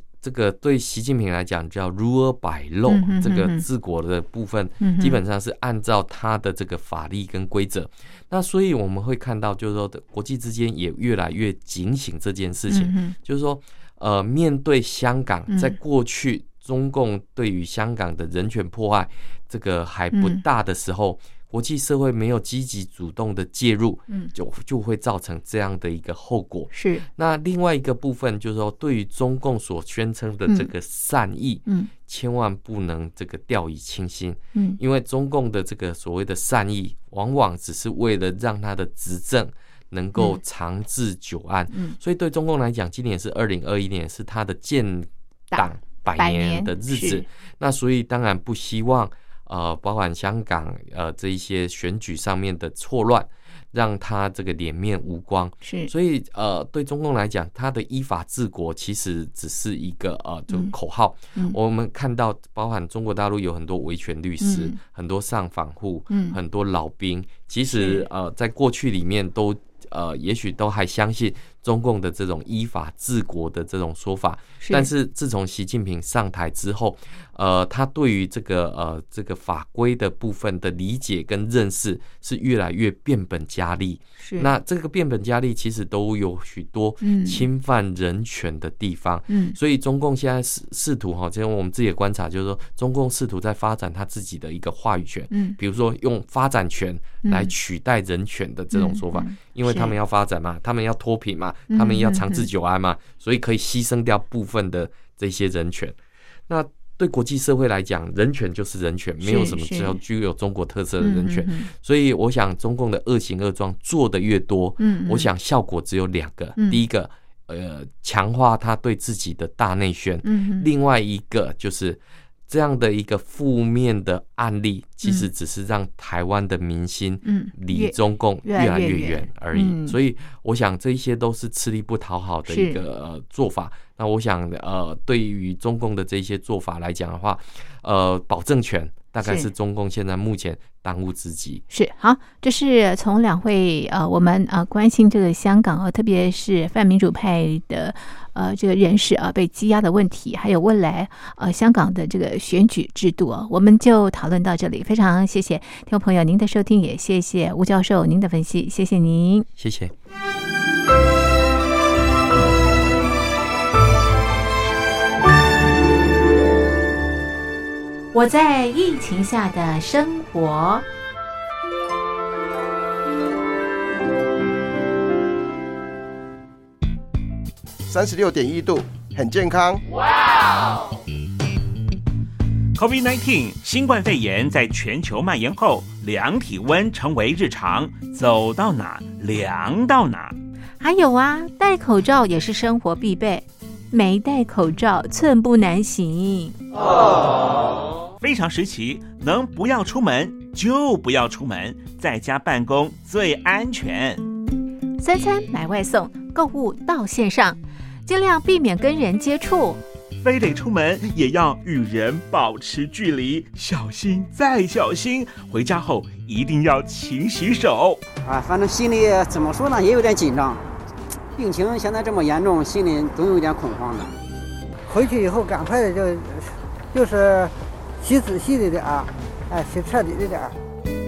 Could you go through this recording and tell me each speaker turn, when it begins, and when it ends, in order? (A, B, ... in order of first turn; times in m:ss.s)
0:00.2-1:46.0 A
0:02.9-0:03.6 B
0:04.8-0:05.2 B
0:12.7-0:13.1 B
0:15.5-0:15.8 B
0:20.1-0:20.4 B
0:26.7-0:27.0 B
0:41.7-0:42.0 B
0:45.5-0:47.3 B
0:55.6-0:55.9 B
1:04.4-1:04.8 B
1:06.1-1:06.4 B
1:07.7-1:08.1 B
1:14.6-1:14.9 B
1:24.2-1:24.5 B
1:27.0-1:27.4 B
1:29.3-1:29.6 B
1:35.3-1:35.6 B
1:37.2-1:37.5 B
1:38.7-1:39.9 B
1:41.7-1:42.5 B
1:46.5-2:21.6 A
1:49.2-1:50.0 B
1:51.0-1:51.7 B
1:54.8-1:55.3 B
1:56.6-1:56.8 B
2:00.2-2:00.7 B
2:05.0-2:05.3 B
2:07.2-2:10.0 B
2:12.5-2:12.8 B
2:19.2-2:19.5 B
2:21.7-2:39.5 B
2:39.6-2:39.9 A
2:48.1-2:50.9 B
2:57.9-2:59.8 C
3:02.7-3:10.4 D
3:10.8-3:16.6 B
3:18.2-3:24.2 D
3:25.0-3:29.8 B
3:30.2-3:38.0 D
3:38.2-3:40.6 E
3:41.4-3:44.1 E
3:44.9-3:50.6 F